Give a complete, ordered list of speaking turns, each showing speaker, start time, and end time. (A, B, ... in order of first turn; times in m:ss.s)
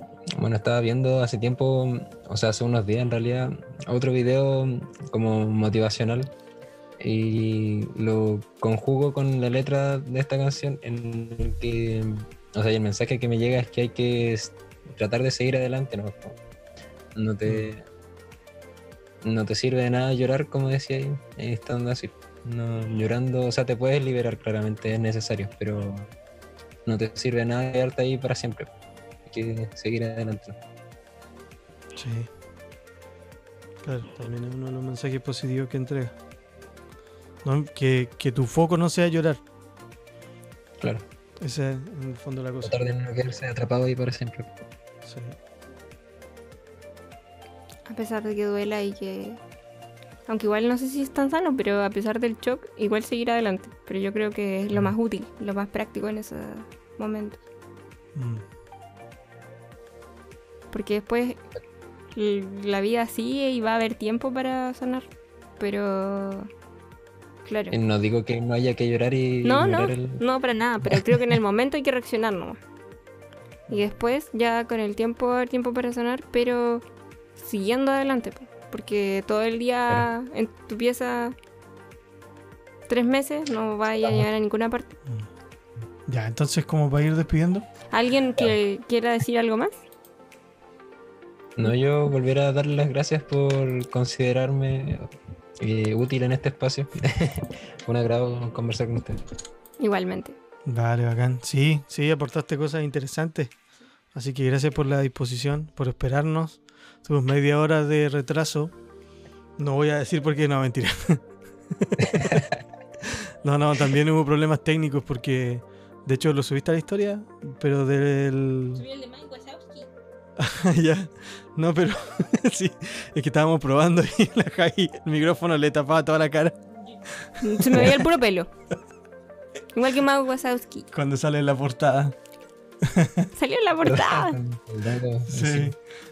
0:00.3-0:06.3 A
0:07.0-0:16.4 A
0:17.2-0:17.8 A
0:17.5-0:17.7 B
0:19.2-0:26.1 A
0:26.9-0:28.7 A
0:29.3-0:30.6 A
0:32.0-0:32.3 B
0:33.8-0:36.2 B
0:37.4-0:39.4 B
0:41.4-0:42.8 B
0:42.6-0:44.5 A
0:45.0-0:45.4 B
0:47.9-0:49.4 C
0:50.3-0:57.4 C
0:58.2-0:58.4 B
1:00.7-1:01.4 C
1:02.2-1:05.1 C
1:05.6-1:06.5 C
1:07.4-1:07.8 C
1:07.7-1:10.2 A
1:09.4-1:12.6 C
1:10.9-1:11.2 A
1:13.7-1:16.8 C
1:17.4-1:21.4 C
1:22.9-1:25.0 C
1:26.1-1:27.7 B
1:27.9-1:29.8 C
1:31.6-1:39.2 A
1:39.8-1:40.4 C
1:40.7-1:43.5 B
1:44.1-1:48.7 B
1:49.6-1:52.5 B
1:52.0-1:52.5 A
1:53.4-1:58.8 B
1:58.8-1:59.9 C
2:00.4-2:08.1 B
2:07.4-2:08.5 C
2:09.7-2:10.9 C
2:10.9-2:12.2 B
2:12.8-2:13.3 B
2:13.4-2:14.4 C
2:13.8-2:15.7 A
2:15.3-2:15.8 B